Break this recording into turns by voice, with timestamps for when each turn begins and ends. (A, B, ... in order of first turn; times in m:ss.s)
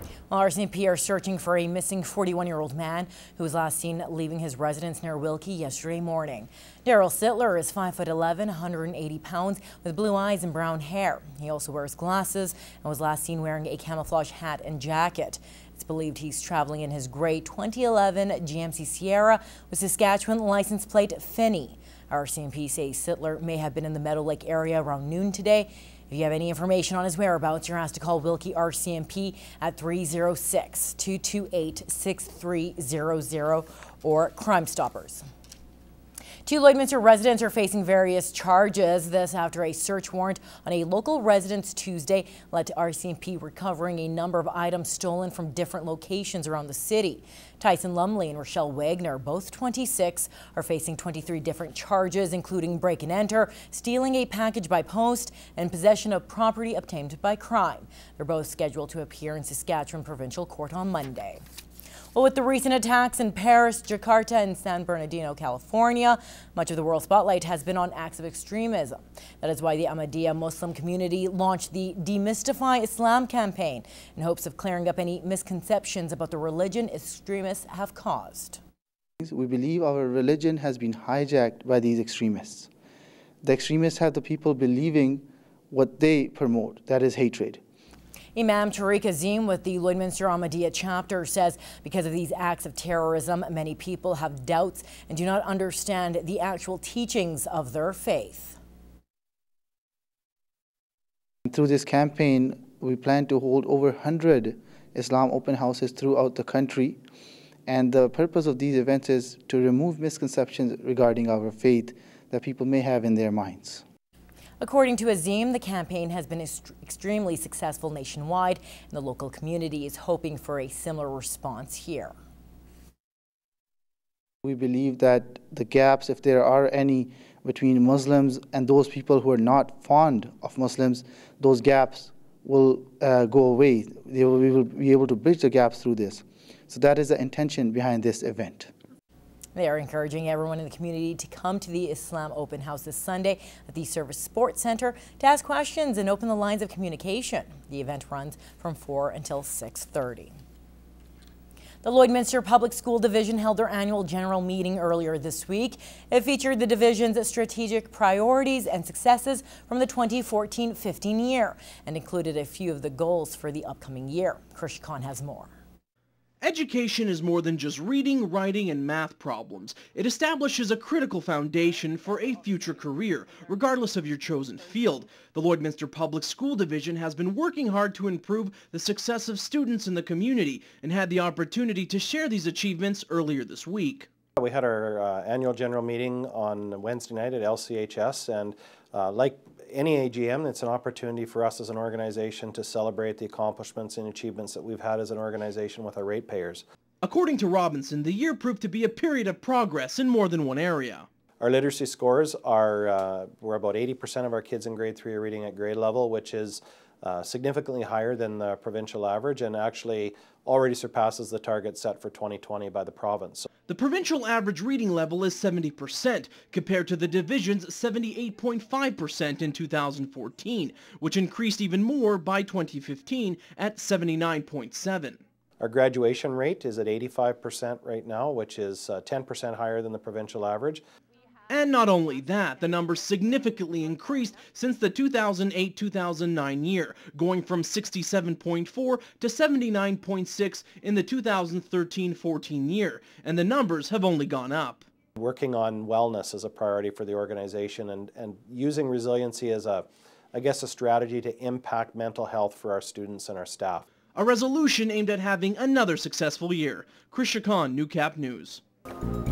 0:00.3-0:35.3 A
0:36.4-1:01.4 A
1:02.1-1:18.6 A
1:19.2-1:22.7 B
1:23.4-1:27.6 B
1:28.4-1:38.6 A
1:41.5-1:47.0 B
1:47.7-1:53.8 B
1:54.6-2:02.1 A
2:04.4-2:18.7 B
2:19.6-2:30.3 A
2:31.8-2:45.5 A
2:46.4-3:04.1 C
3:04.4-3:16.6 D
3:17.0-3:21.1 C
3:21.4-3:33.5 D
3:33.7-3:45.2 C
3:45.6-3:50.8 D
3:51.5-4:04.9 C
4:05.2-4:13.9 D
4:14.1-4:18.6 C